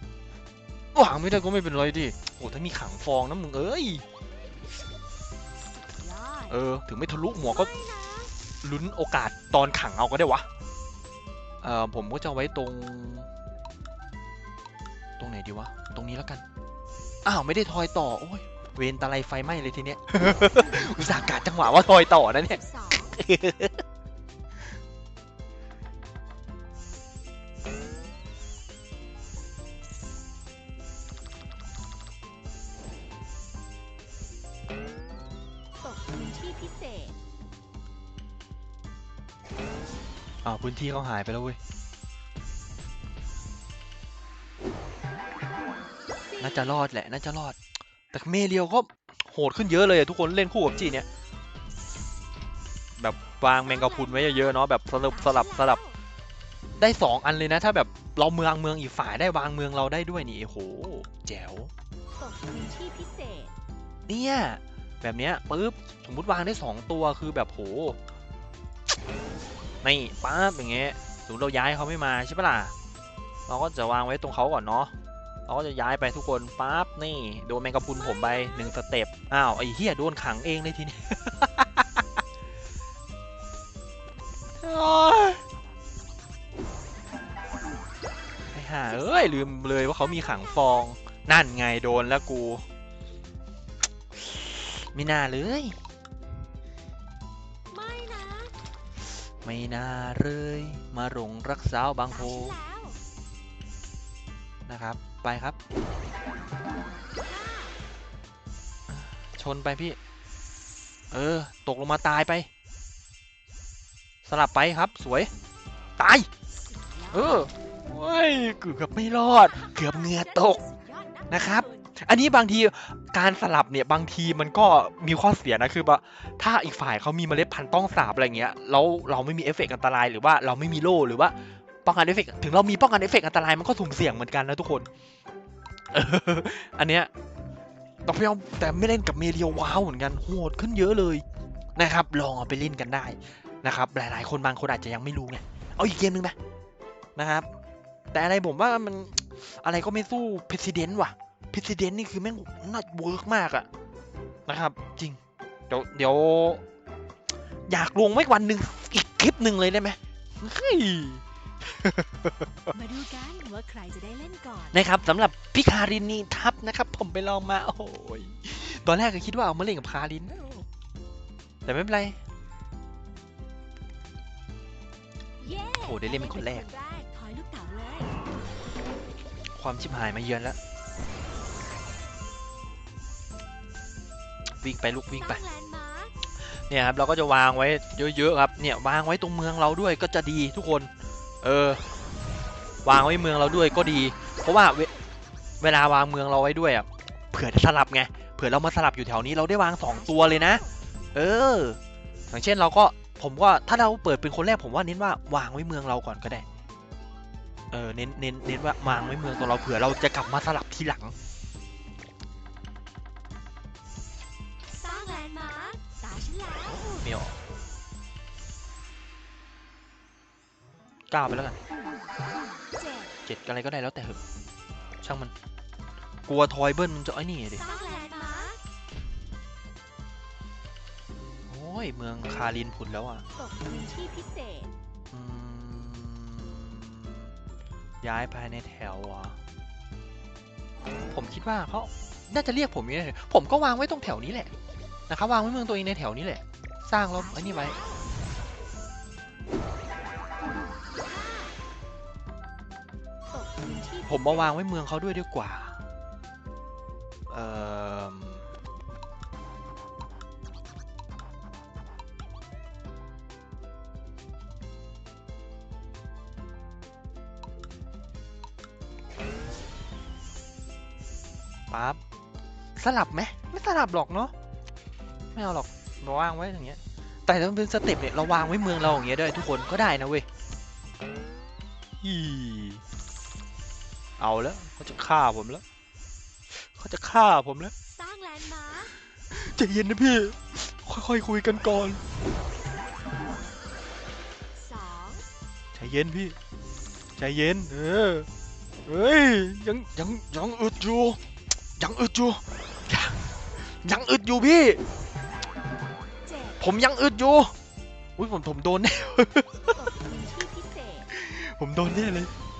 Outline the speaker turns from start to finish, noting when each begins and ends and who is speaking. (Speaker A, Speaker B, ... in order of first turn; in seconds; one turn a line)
Speaker A: 0.9-4.0
Speaker B: 5.7-6.6
Speaker A: 6.5-7.7
Speaker B: 7.5-8.3
Speaker A: 8.6-10.5
Speaker A: 11.6-13.3
Speaker A: 15.2-16.4
Speaker A: 17.2-23.8
Speaker B: 22.4-23.2
Speaker B: 35.8-37.2
Speaker A: 40.4-41.6
Speaker B: 46.2-46.8
Speaker A: 46.4-47.6
Speaker A: 48.1-51.1
Speaker A: 53.0-55.8
Speaker B: 53.6-56.0
Speaker A: 56.8-61.7
Speaker B: 62.2-63.5
Speaker A: 64.1-68.0
Speaker A: 69.8-72.7
Speaker A: 73.5-74.9
Speaker A: 75.5-82.0
Speaker B: 78.0-78.7
Speaker A: 84.6-85.4
Speaker A: 88.5-92.6
Speaker B: 88.9-90.8
Speaker A: 94.2-95.8
Speaker B: 97.7-98.5
Speaker A: 99.4-102.6
Speaker B: 102.1-103.0
Speaker A: 104.7-105.6
Speaker B: 107.2-107.8
Speaker A: 108.9-110.0
Speaker A: 111.1-112.5
Speaker A: 114.3-115.3
Speaker A: 116.0-116.3
Speaker B: 116.6-117.5
Speaker A: 117.1-120.6
Speaker B: 119.3-122.0
Speaker A: 121.3-134.9
Speaker A: 135.9-137.1
Speaker A: 138.1-141.2
Speaker A: 141.8-146.3
Speaker A: 147.2-147.5
Speaker A: 148.1-153.7
Speaker A: 154.5-155.2
Speaker A: 155.7-156.6
Speaker A: 157.7-162.7
Speaker B: 162.7-164.8
Speaker A: 164.7-170.7
Speaker A: 171.7-172.2
Speaker B: 175.4-178.2
Speaker A: 175.8-176.7
Speaker A: 179.6-180.6
Speaker A: 184.6-185.4
Speaker B: 185.1-186.2
Speaker A: 186.4-190.9
Speaker A: 191.4-191.8
Speaker A: 192.8-194.9
Speaker A: 195.6-200.6
Speaker B: 199.8-200.7
Speaker A: 201.1-201.8
Speaker A: 202.3-206.4
Speaker A: 207.7-211.1
Speaker B: 214.7-216.8
Speaker A: 216.7-217.3
Speaker A: 221.1-221.6
Speaker B: 222.7-223.1
Speaker A: 223.2-224.2
Speaker A: 225.0-225.3
Speaker A: 226.3-227.6
Speaker B: 227.6-228.6
Speaker A: 231.5-233.2
Speaker B: 233.3-234.7
Speaker A: 235.1-237.3
Speaker A: 238.0-239.4
Speaker A: 241.1-244.5
Speaker A: 245.1-247.8
Speaker B: 247.1-248.1
Speaker B: 250.9-251.6
Speaker B: 253.3-254.5
Speaker A: 254.1-255.8
Speaker A: 257.3-258.5
Speaker A: 271.7-272.0
Speaker A: 272.8-274.3
Speaker A: 275.4-280.3
Speaker A: 282.0-282.8
Speaker A: 284.2-285.6
Speaker A: 286.6-287.7
Speaker B: 287.9-288.9
Speaker A: 289.3-292.0
Speaker B: 294.5-295.3
Speaker A: 295.7-296.4
Speaker A: 297.2-298.3
Speaker A: 298.9-301.2
Speaker A: 301.8-303.2
Speaker A: 303.8-304.8
Speaker B: 306.2-306.6
Speaker A: 306.6-307.5
Speaker A: 308.2-309.8
Speaker B: 309.7-311.1
Speaker A: 311.1-312.3